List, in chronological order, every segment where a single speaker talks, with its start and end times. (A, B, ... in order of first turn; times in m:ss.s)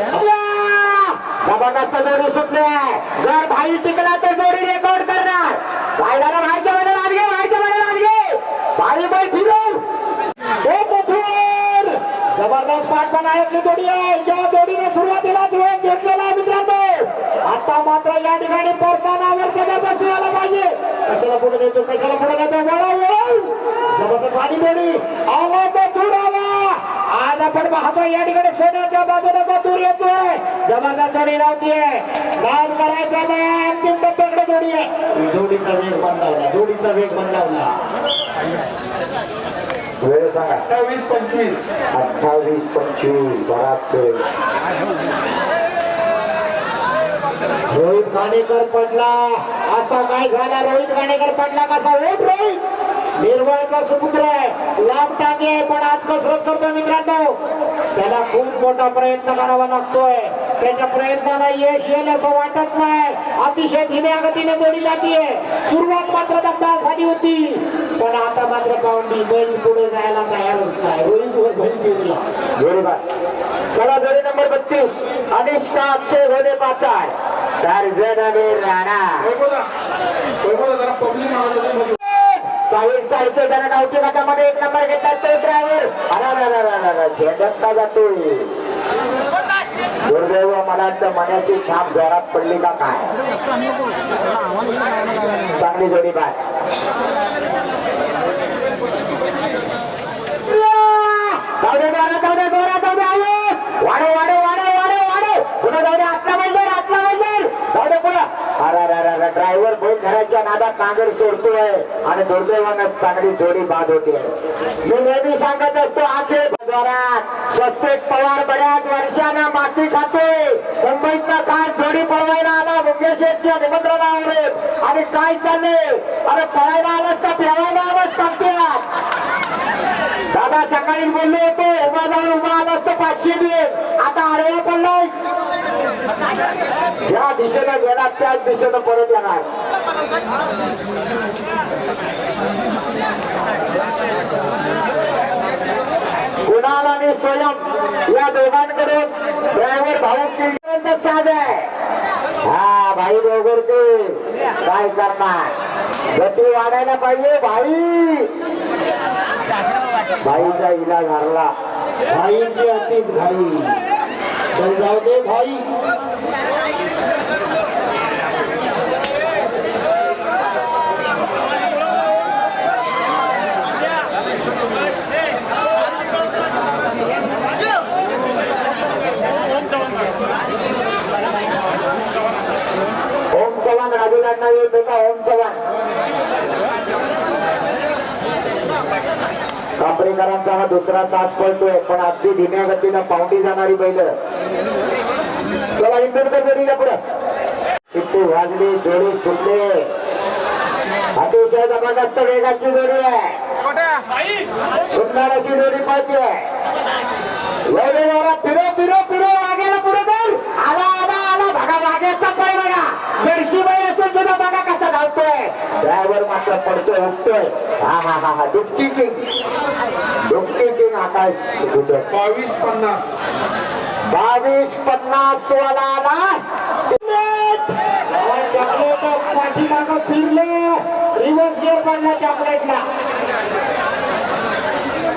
0:00.1-0:08.2 A
0:08.8-0:09.8 A
0:10.6-0:37.7 B
0:40.0-0:40.6 A
0:40.7-0:41.6 C
0:41.9-0:44.2 A
0:47.7-0:52.6 B
0:53.2-0:57.4 B
0:58.0-1:12.2 B
1:12.6-1:13.0 A
1:13.7-1:19.3 A
1:19.2-1:19.7 C
1:20.4-1:22.0 C
1:22.1-1:28.5 A
1:30.1-1:33.0 A
1:35.5-1:36.4 A
1:40.5-1:54.3 A
1:54.8-2:08.8 A
2:10.3-2:15.2 A
2:17.1-2:19.5 A
2:26.5-2:31.7 A
2:32.5-2:35.5 A
2:36.2-2:38.3 A
2:40.2-2:41.5 A
2:42.1-2:43.8 B
2:44.5-2:45.6 B
3:03.3-3:05.6 A
3:09.8-3:14.1 A
3:15.8-3:17.0 A
3:17.9-3:19.9 A
3:21.2-3:23.4 A
3:24.9-3:26.4 A
3:27.7-3:39.2 A
3:40.3-3:42.1 A
3:42.1-3:43.0 C
3:44.1-3:46.3 A
3:46.9-3:52.8 B